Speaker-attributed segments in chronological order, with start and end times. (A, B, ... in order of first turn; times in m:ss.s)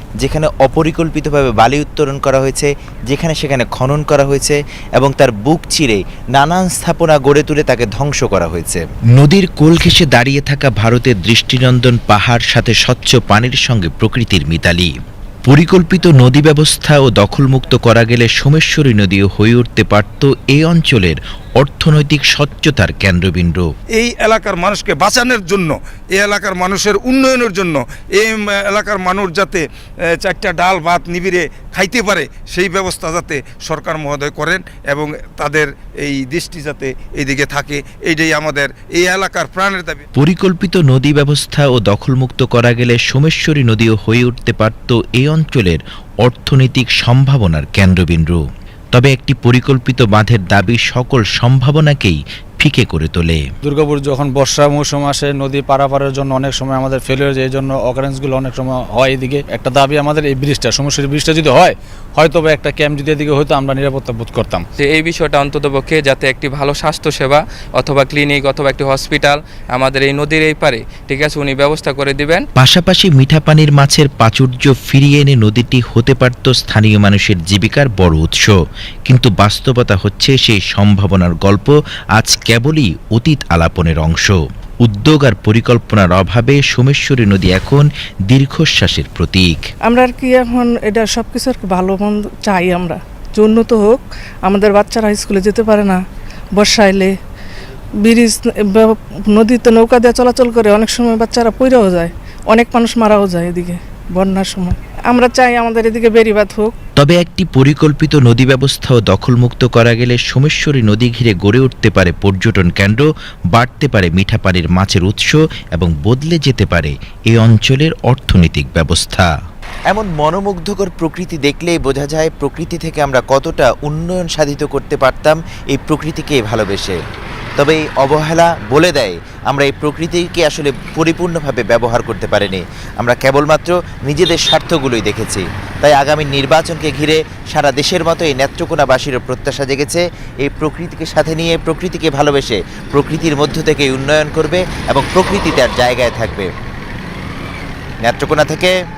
0:00.2-0:14.9 A
0:15.5-0:23.7 A
0:24.0-0:29.6 B
0:30.1-0:40.0 B
0:40.2-0:48.4 A
0:48.9-0:53.4 A
0:53.6-1:04.6 C
1:04.8-1:12.4 D
1:12.6-1:18.6 A
1:19.1-1:29.6 A
1:29.9-1:36.0 E
1:36.6-1:37.1 E
1:38.0-1:46.7 E
1:47.0-1:59.3 A
1:59.9-2:07.0 A
2:07.6-2:26.5 A
2:28.0-2:28.7 A